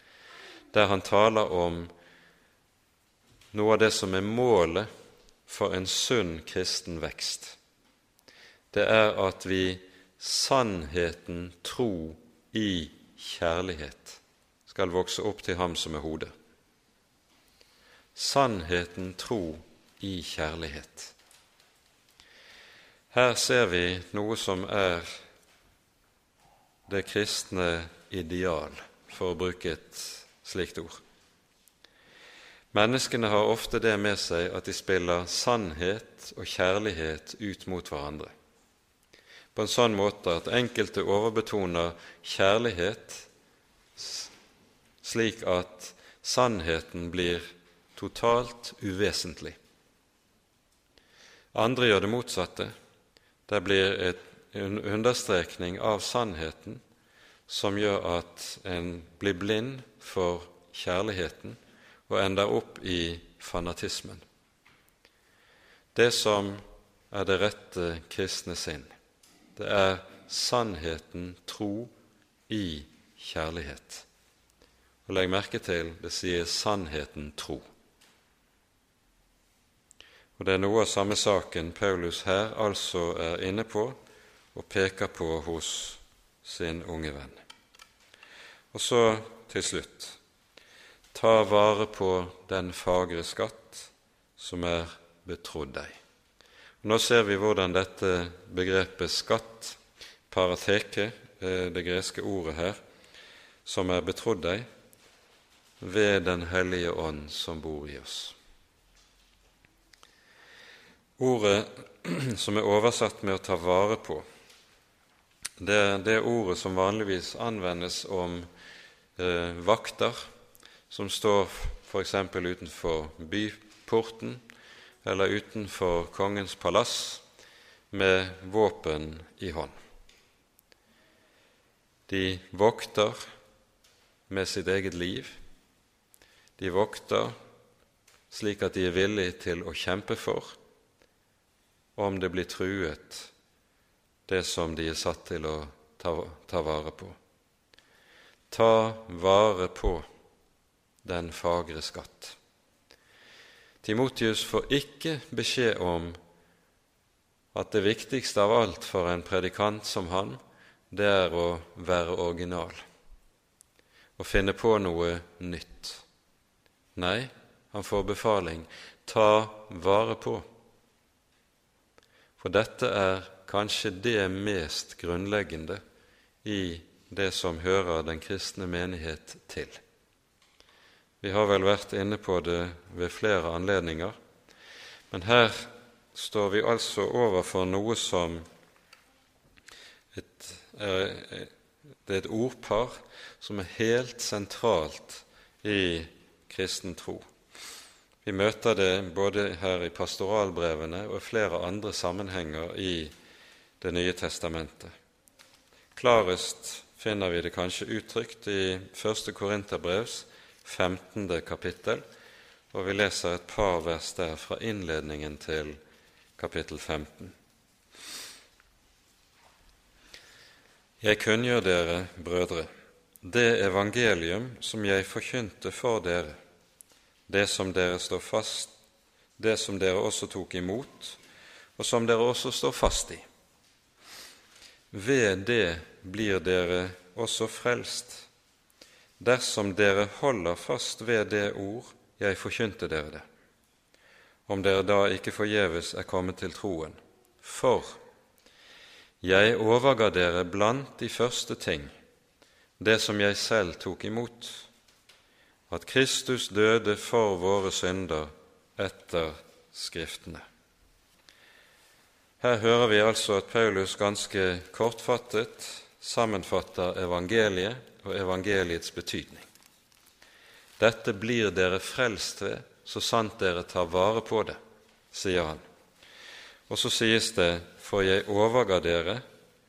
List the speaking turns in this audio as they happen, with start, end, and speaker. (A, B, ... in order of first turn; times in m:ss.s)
0:00.7-0:01.9 A
0:03.5-0:04.9 A
0:05.5-0:07.6 A
0:08.7-0:16.3 A
0:18.2-0:21.1 A
0:23.1-0:25.2 A
0:26.9-0:31.0 A
0:32.7-0:38.3 A
0:39.6-0:43.3 A
0:44.0-0:44.3 A
0:45.0-0:49.6 A
0:51.5-0:52.7 A
0:53.5-0:56.8 A
0:57.5-1:04.2 A
1:06.0-1:08.9 A
1:09.6-1:11.9 A
1:12.5-1:14.1 A
1:15.1-1:17.6 A
1:20.4-1:24.0 A
1:24.5-1:27.4 A
1:28.7-1:30.2 A
1:31.1-1:36.0 A
1:36.8-1:42.8 A
1:43.6-1:44.7 A
1:45.8-1:48.4 A
1:51.2-1:54.2 A
1:55.6-1:58.5 A
1:59.2-2:00.2 A
2:00.9-2:04.4 A
2:05.0-2:07.2 A
2:07.9-2:09.8 A
2:12.1-2:13.3 A
2:14.3-2:15.4 A
2:16.6-2:17.4 A
2:18.3-2:20.6 A
2:22.0-2:23.3 A
2:24.3-2:27.2 A
2:28.5-2:30.1 A
2:31.0-2:32.4 A
2:33.8-2:36.2 A
2:37.5-2:40.4 A
2:40.9-2:42.8 A
2:44.2-2:46.0 A
2:47.0-2:50.5 A
2:52.4-2:55.8 A
2:56.4-2:59.8 A
3:01.2-3:04.2 A
3:05.1-3:08.4 A
3:10.1-3:11.5 A
3:12.1-3:17.3 A
3:18.2-3:23.1 A
3:23.8-3:24.9 A
3:26.0-3:32.0 A
3:32.7-3:35.8 A
3:36.4-3:37.4 A
3:41.0-3:42.7 A
3:43.2-3:46.4 A
3:47.3-3:48.7 A
3:49.4-3:51.2 A
3:51.8-3:53.2 A
3:54.9-3:58.3 A
3:59.2-4:03.2 A
4:04.5-4:08.0 A
4:09.2-4:11.9 A
4:12.8-4:14.7 A
4:15.7-4:20.4 A
4:22.4-4:29.5 A
4:30.8-4:34.6 A
4:35.1-4:35.6 A
4:36.7-4:39.2 A